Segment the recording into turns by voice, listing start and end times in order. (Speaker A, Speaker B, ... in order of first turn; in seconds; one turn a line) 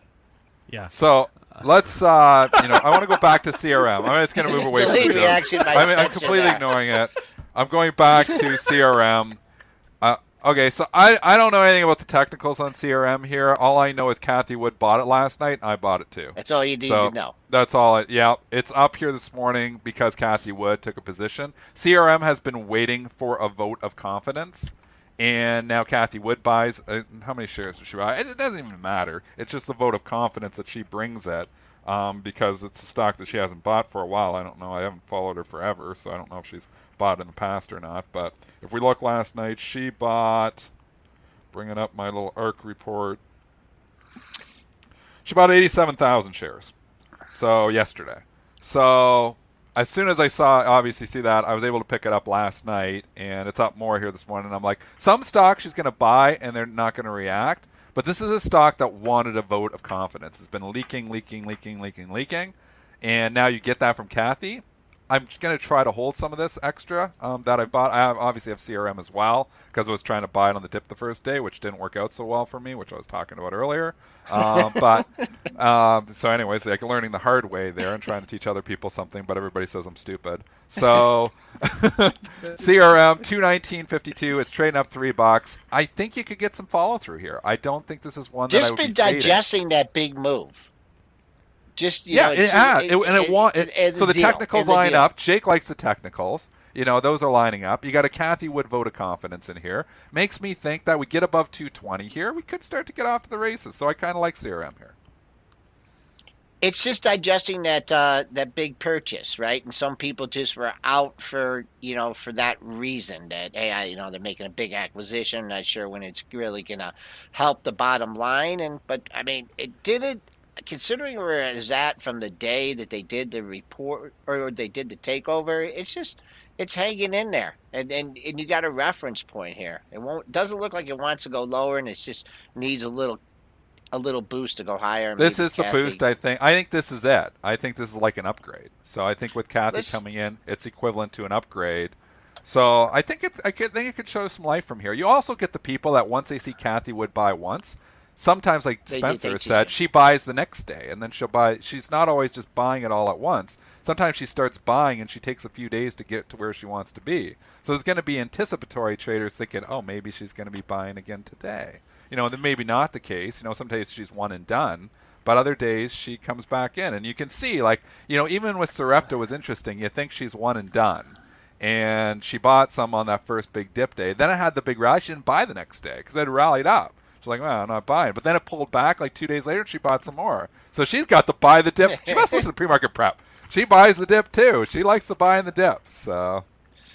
Speaker A: 0.9-9.4
Speaker B: 4.4-6.7
Speaker A: 10.0-40.7
Speaker B: 16.4-17.3
Speaker A: 41.5-43.2
Speaker A: 45.2-46.7
Speaker A: 47.3-89.4
Speaker B: 74.4-74.8
Speaker B: 88.5-90.7
Speaker B: 91.8-95.1
Speaker A: 92.1-105.0
Speaker B: 106.6-133.2
Speaker B: 133.9-136.0
Speaker A: 135.2-186.4
Speaker B: 139.7-140.0
Speaker B: 148.9-149.7
Speaker B: 181.9-182.4